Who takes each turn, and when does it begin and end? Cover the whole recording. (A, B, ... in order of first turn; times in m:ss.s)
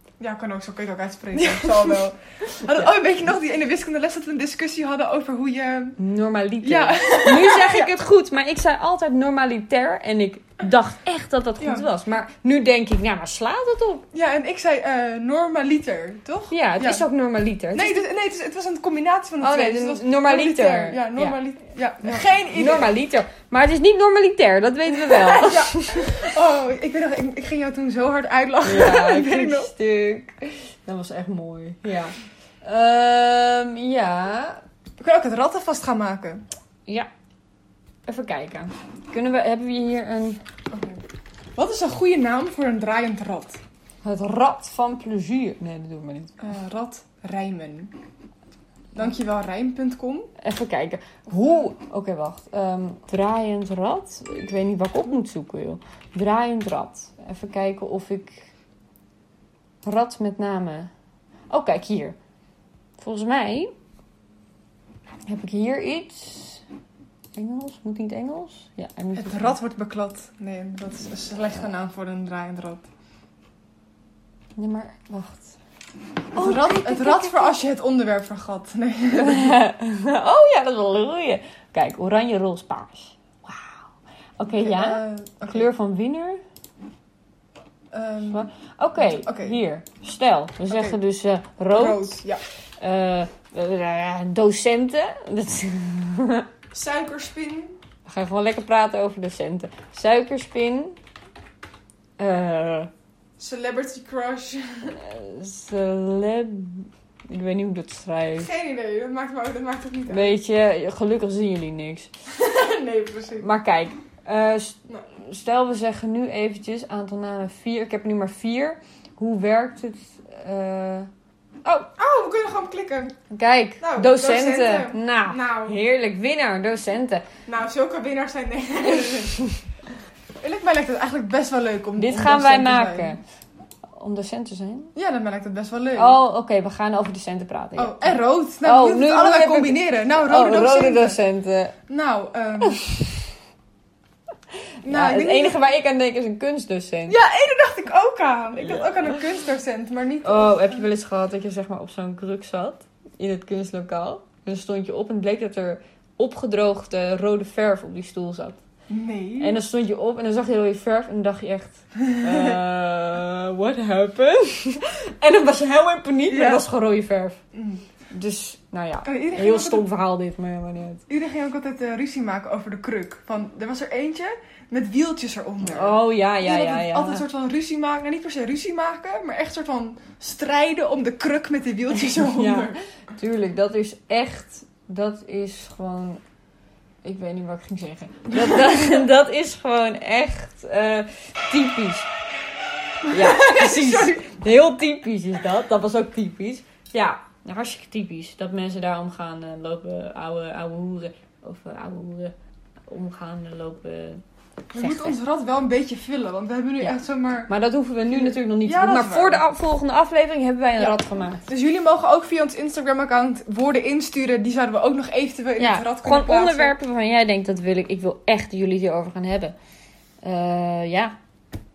0:00.2-0:06.0 A
0:01.4-0:02.0 B
0:02.6-0:02.9 B
0:06.0-0:14.0 B
0:06.6-0:07.9 A
0:11.6-0:11.9 A
0:14.1-0:17.0 A
0:16.5-0:18.0 B
0:17.7-0:22.9 A
0:19.4-0:21.4 B
0:22.0-0:26.3 B
0:24.9-0:29.7 A
0:28.6-0:34.6 B
0:35.0-0:36.4 A
0:38.1-0:40.4 B
0:40.7-0:41.0 A
0:41.6-0:43.6 A
0:44.0-0:46.4 B
0:46.4-0:47.9 A
0:48.9-0:50.3 A
0:50.4-0:58.5 B
0:59.8-1:00.9 B
1:01.5-1:02.2 B
1:03.0-1:03.7 B
1:05.2-1:06.6 B
1:07.3-1:09.6 B
1:09.2-1:12.8 A
1:14.6-1:15.5 B
1:16.3-1:17.6 B
1:16.3-1:19.6 A
1:19.2-1:23.9 B
1:24.4-1:26.4 B
1:24.5-1:25.7 A
1:27.9-1:28.5 A
1:28.3-1:32.2 B
1:29.0-1:29.6 A
1:30.7-1:31.0 A
1:31.7-1:32.4 A
1:32.8-1:36.5 B
1:36.7-1:37.7 A
1:38.1-1:41.0 B
1:42.2-1:42.9 B
1:43.4-1:45.0 A
1:45.0-1:48.5 B
1:48.4-1:50.4 A
1:50.1-1:52.1 B
1:52.3-1:53.5 A
1:53.4-2:01.1 B
2:02.0-2:03.2 A
2:03.3-2:07.2 B
2:03.8-2:05.8 A
2:07.4-2:09.4 A
2:10.4-2:13.1 A
2:12.0-2:13.2 B
2:13.9-2:14.9 B
2:14.9-2:16.2 A
2:15.9-2:21.8 B
2:17.8-2:21.2 A
2:21.9-2:22.8 A
2:22.6-2:23.2 B
2:24.8-2:25.6 A
2:24.8-2:27.2 B
2:27.1-2:30.9 A
2:28.6-2:29.1 B
2:30.2-2:38.6 B
2:38.9-2:39.6 A
2:39.4-2:47.4 B
2:42.0-2:42.6 A
2:46.3-2:46.6 A
2:47.5-2:47.8 A
2:48.1-2:51.0 B
2:49.0-2:49.8 A
2:51.1-3:02.8 A
2:55.6-2:57.2 B
3:02.1-3:06.2 B
3:07.0-3:12.1 B
3:08.3-3:09.0 A
3:13.0-3:14.3 A
3:13.1-3:22.3 B
3:22.9-3:24.2 B
3:24.7-3:25.2 B
3:24.7-3:27.5 A
3:27.5-3:31.4 B
3:28.1-3:29.4 A
3:30.8-3:36.7 A
3:35.6-3:39.5 B
3:40.2-3:41.2 B